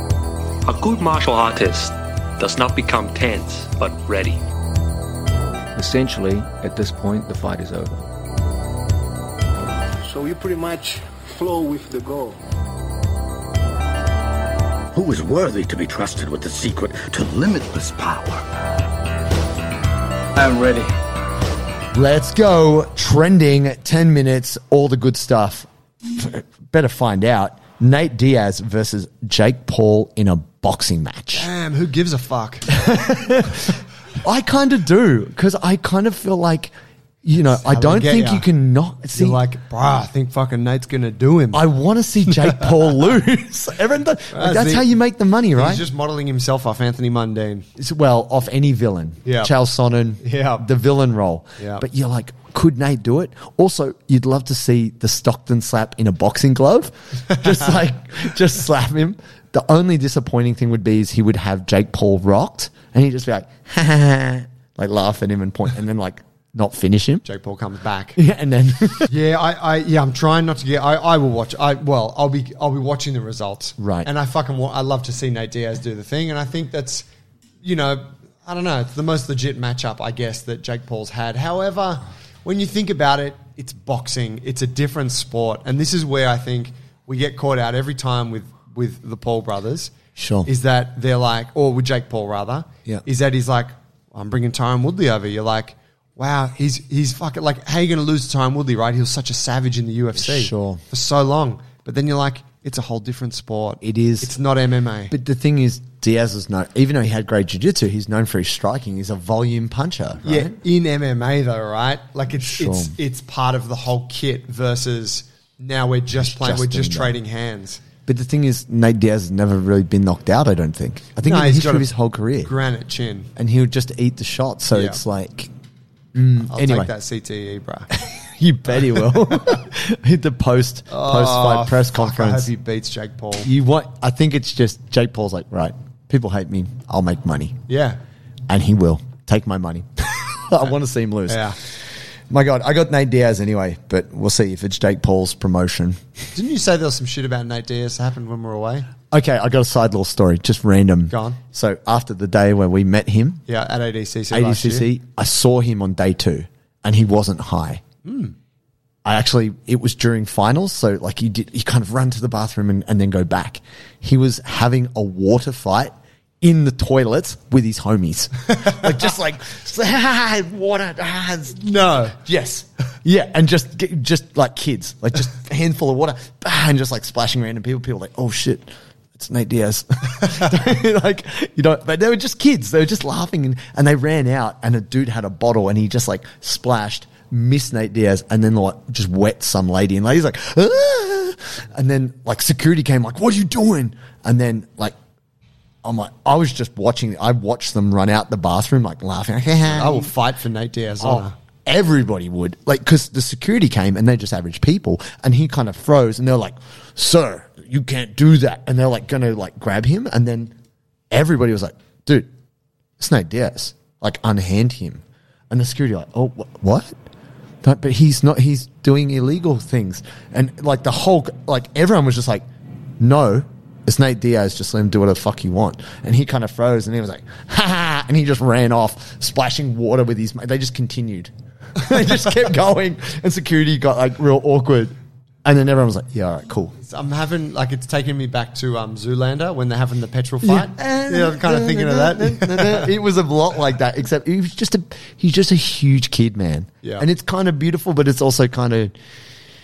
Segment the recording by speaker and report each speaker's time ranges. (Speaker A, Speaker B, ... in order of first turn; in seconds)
Speaker A: 0.7-4.4
Speaker B: 5.7-8.0
Speaker C: 10.1-12.4
Speaker D: 14.9-18.4, 20.4-20.9
Speaker E: 21.9-31.5, 32.7-36.7, 37.2-39.4, 41.5-45.9, 47.8-67.2, 68.2-69.1, 73.8-74.1, 90.2-90.5, 100.1-100.8, 103.8-104.3, 105.1-110.5, 112.3-113.0, 116.1-117.2, 118.0-122.5, 123.3-125.5, 126.1-126.9, 127.9-132.5, 133.4-137.6, 138.5-141.7, 142.3-146.0, 149.1-153.4, 154.3-157.8, 159.0-194.9, 195.8-200.1, 201.0-210.5, 211.1-212.3, 213.0-216.9, 217.6-222.4, 223.0-234.9, 235.4-236.7, 240.4-248.9
Speaker F: 31.3-32.8, 37.6-38.5, 39.1-41.6, 42.2-43.0, 44.3-44.9, 45.5-47.6, 49.2-49.5, 50.2-50.6, 51.6-51.8, 67.2-68.2, 69.1-77.1, 77.6-89.9, 90.5-105.1, 110.2-117.8, 121.2-123.3, 124.7-125.0, 126.4-127.9, 130.9-133.5, 137.7-138.0, 141.3-141.6, 146.3-148.9, 151.1-151.4, 153.5-154.9, 158.0-158.3, 171.6-172.2, 199.7-201.3, 236.8-242.9